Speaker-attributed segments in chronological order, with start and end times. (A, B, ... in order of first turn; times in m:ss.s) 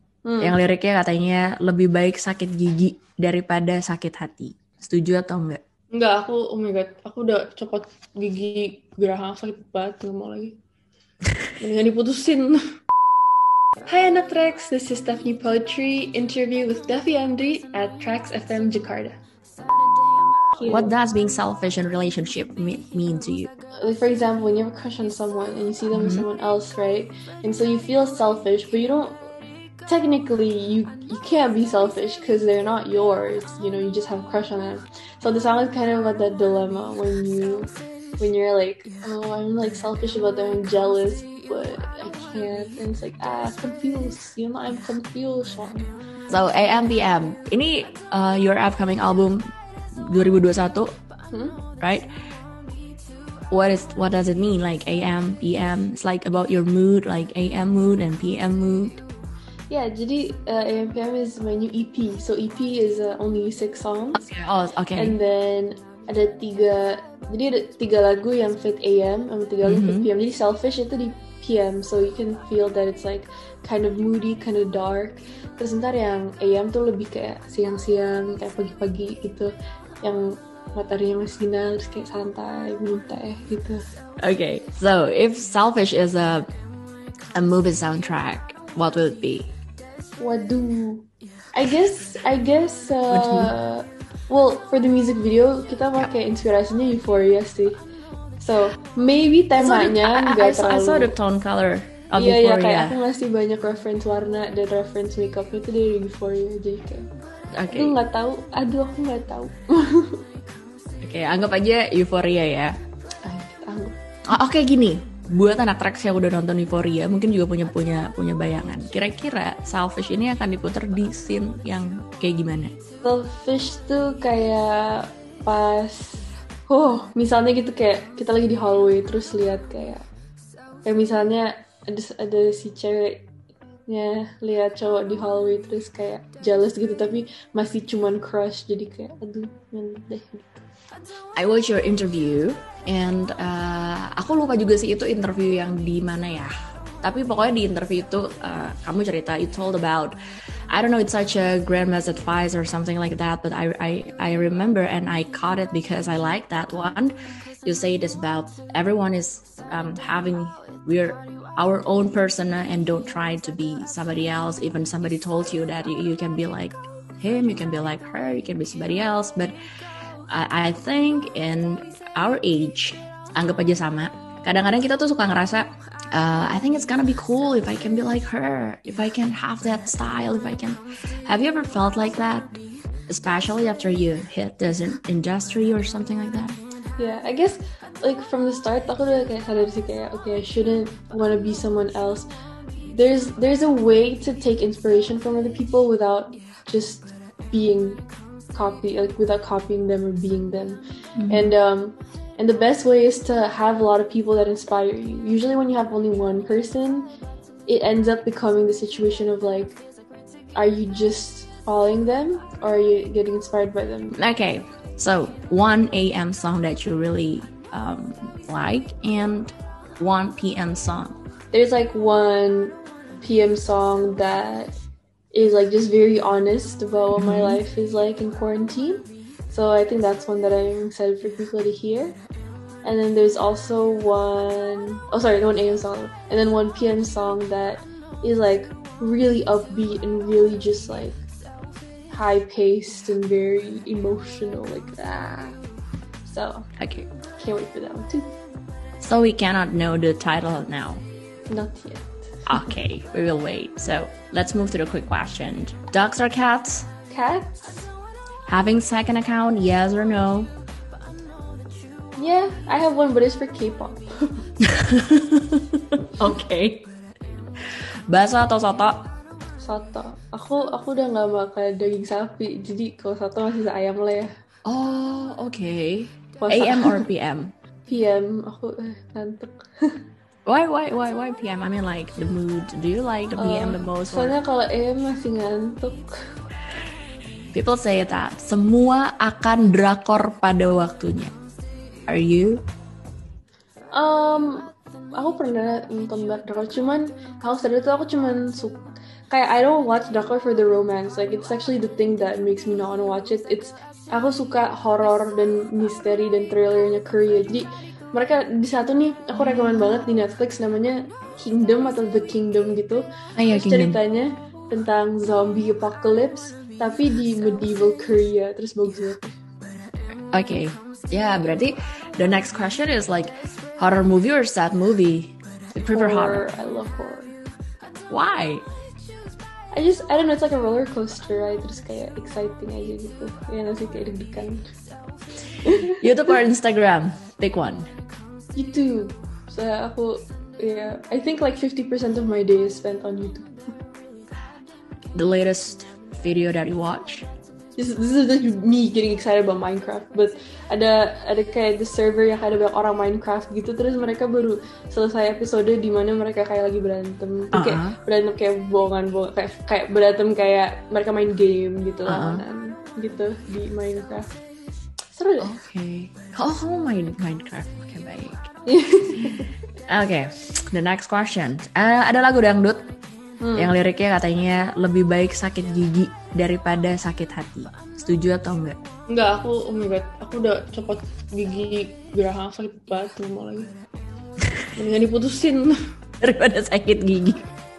0:00.2-0:00.6 A
0:00.4-0:05.6 B
0:05.9-0:10.6 A
0:11.6-0:12.6 A
0:13.8-0:19.2 A
0:20.5-0:20.9 A
0:20.6-0:23.5 B
0:23.8-0:29.2 A
0:25.9-0:26.2 B
0:29.8-0:45.9 A
0:46.3-0:50.9 B
0:51.3-0:51.6 A
0:51.8-0:52.1 B
0:53.5-0:59.0 B
0:59.7-1:04.2 A
1:04.1-1:05.2 B
1:05.0-1:23.8 A
1:09.6-1:10.1 B
1:24.2-1:26.4 B
1:27.3-1:29.5 B
1:30.2-1:37.8 A
1:33.1-1:33.5 B
1:38.4-1:41.1 A
1:39.6-1:42.9 B
1:42.2-1:47.1 A
1:47.5-1:48.0 B
1:47.7-1:50.2 A
1:51.0-1:52.7 B
1:53.2-1:53.9 A
1:54.3-2:02.7 B
2:03.0-2:10.0 A
2:10.8-2:13.2 A
2:13.9-2:20.6 A
2:21.4-2:30.1 B
2:30.7-2:49.5 B
2:50.3-3:02.5 B
3:03.1-3:06.6 B
3:07.0-3:12.3 A
3:12.8-3:18.0 A
3:18.5-3:27.1 A
3:21.2-3:21.5 B
3:27.7-3:29.8 A
3:30.5-3:34.2 A
3:34.2-3:41.2 B
3:41.5-3:44.8 A
3:45.3-3:52.2 A
3:47.1-3:47.6 B
3:52.8-4:01.2 A
4:02.1-4:05.6 A
4:06.2-4:06.6 A
4:06.8-4:07.1 B
4:07.4-4:08.3 A
4:09.0-4:11.0 B
4:11.5-4:12.2 A
4:12.4-4:16.9 B
4:17.1-4:17.9 A
4:18.4-4:20.5 B
4:22.2-4:24.4 A
4:24.6-4:26.8 B
4:28.1-4:29.1 B
4:29.6-4:34.3 A
4:34.6-4:37.5 B
4:36.4-4:37.0 A
4:37.9-4:40.0 A
4:40.4-4:44.4 B
4:43.4-4:46.1 A
4:47.5-4:51.3 B
4:52.1-4:52.6 B
4:53.9-5:19.4 A
5:13.4-5:14.0 B
5:20.3-5:26.4 B
5:25.9-5:27.3 A
5:28.1-5:28.6 B
5:29.7-5:34.6 A
5:35.6-5:36.1 A
5:35.7-5:37.9 B
5:38.5-5:43.7 A
5:45.1-5:47.2 B
5:47.8-6:04.4 A
5:57.5-5:58.0 B
6:02.1-6:02.4 B
6:05.2-6:05.5 A
6:05.4-6:08.5 B
6:08.6-6:09.5 A
6:09.9-6:12.8 B
6:13.4-6:13.7 A
6:13.5-6:18.8 B
6:19.1-6:23.7 A
6:24.8-6:25.7 A
6:26.2-6:27.4 B